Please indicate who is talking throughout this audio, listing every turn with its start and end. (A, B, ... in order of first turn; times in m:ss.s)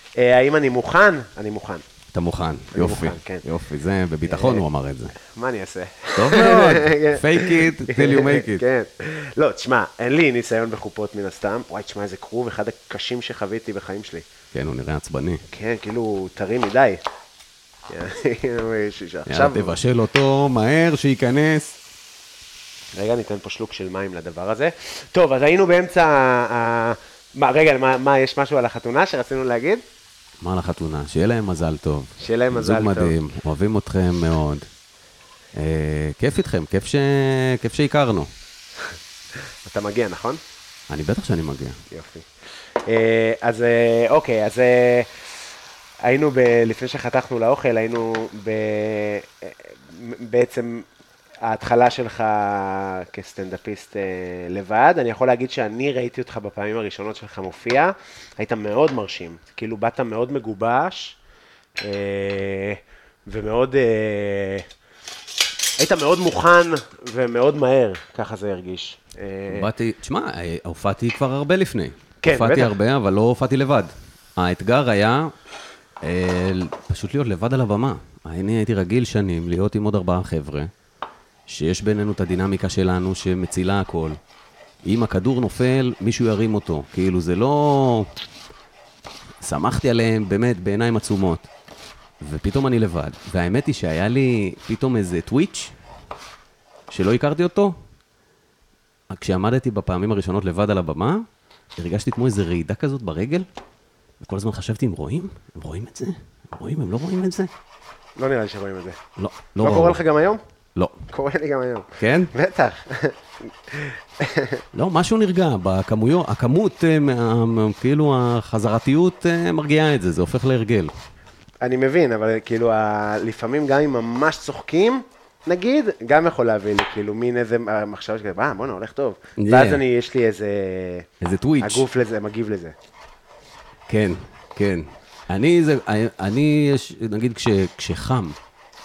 0:00.2-0:01.8 A
0:02.1-0:05.2 B
0:02.7-0:03.4 A
0:04.3-0:04.6 A
0:05.2-0:14.3 A
0:06.2-0:08.6 B
0:14.5-0:15.4 B
0:15.5-0:17.0 A
0:17.9-0:19.8 A
0:19.3-0:21.8 B
0:23.0-0:29.8 A
0:30.4-0:34.7 B
0:32.2-0:33.2 A
0:35.6-0:38.3 B
0:39.6-0:40.4 A
0:40.9-0:41.8 B
0:41.9-0:42.3 A
0:42.8-0:45.1 A
0:46.0-0:50.9 A
0:51.4-1:01.2 A
1:01.8-1:04.7 A
1:05.8-1:09.7 A
1:09.5-1:15.3 B
1:12.2-1:12.8 A
1:16.0-1:20.7 B
1:21.5-1:24.2 B
1:24.8-1:28.1 B
1:29.4-1:31.5 B
1:32.2-1:35.8 B
1:36.9-1:37.8 B
1:39.1-1:41.2 B
1:41.8-1:43.5 B
1:44.2-1:47.5 B
1:48.2-1:49.0 A
1:49.2-1:50.0 B
1:49.6-1:50.4 A
1:51.1-1:54.6 A
1:52.0-1:52.3 B
1:54.7-2:00.9 B
2:01.6-2:11.1 A
2:09.4-2:09.8 B
2:11.2-2:11.9 B
2:11.6-2:12.7 A
2:13.9-2:18.4 B